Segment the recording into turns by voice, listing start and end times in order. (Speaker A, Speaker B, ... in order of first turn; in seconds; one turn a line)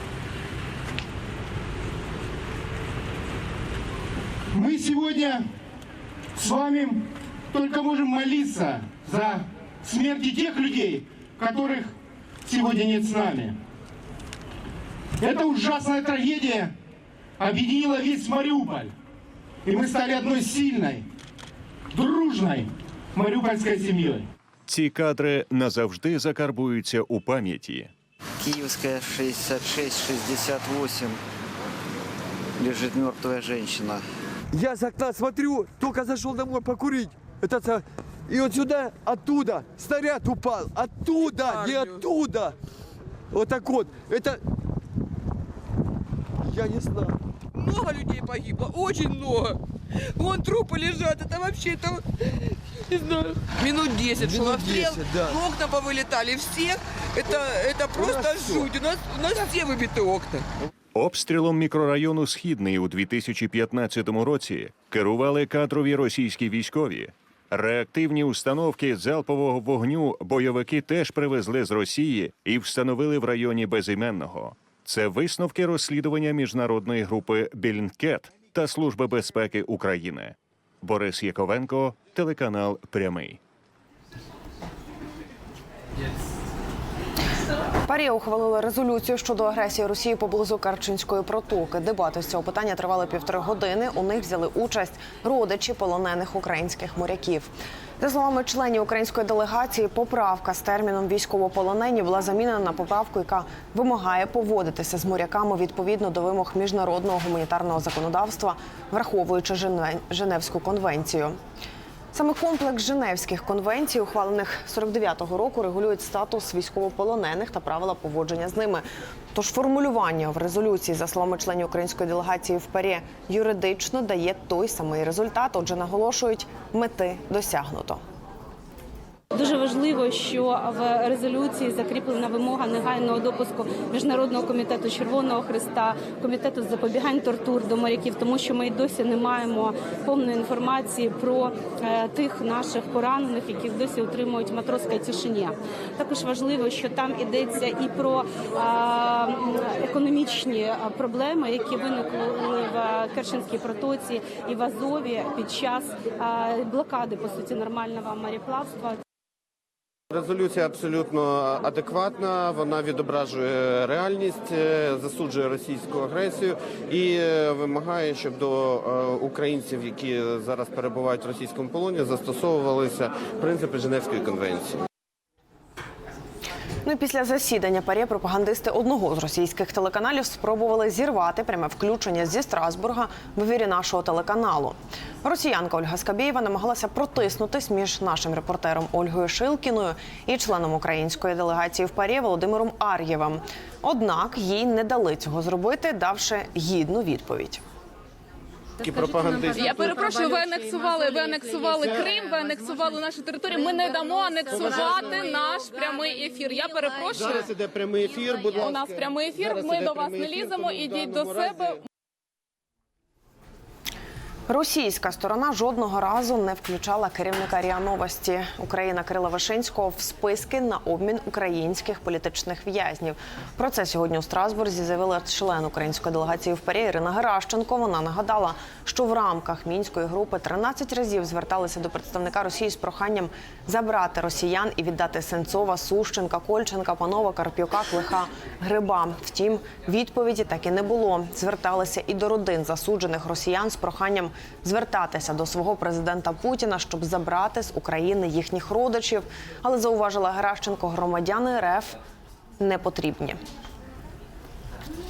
Speaker A: 4.5-5.2
Speaker A: 6.4-6.9
Speaker A: 7.5-9.3
Speaker B: 8.1-8.7
Speaker A: 9.8-10.8
Speaker A: 12.4-13.3
Speaker B: 12.6-13.4
Speaker A: 15.2-16.6
Speaker A: 17.4-18.9
Speaker A: 19.6-20.9
Speaker A: 22.0-22.6
Speaker A: 23.1-24.1
Speaker C: 24.7-27.9
Speaker D: 28.4-31.2
Speaker D: 32.6-34.0
Speaker B: 34.5-42.5
Speaker E: 41.6-41.9
Speaker B: 43.3-44.4
Speaker B: 46.4-47.1
Speaker E: 47.6-49.6
Speaker E: 50.1-52.0
Speaker E: 52.9-60.4
Speaker B: 54.2-55.3
Speaker B: 58.1-58.6
Speaker C: 60.9-83.4
Speaker F: 87.8-111.4
Speaker F: 112.1-128.0
Speaker G: 129.3-159.0
Speaker H: 160.1-174.8
Speaker F: 176.8-197.6
Speaker H: 198.8-199.9
Speaker I: 199.5-207.4
Speaker H: 204.5-205.3
Speaker H: 207.2-211.4
Speaker I: 208.4-211.8
Speaker F: 214.5-252.0
Speaker F: 252.6-253.4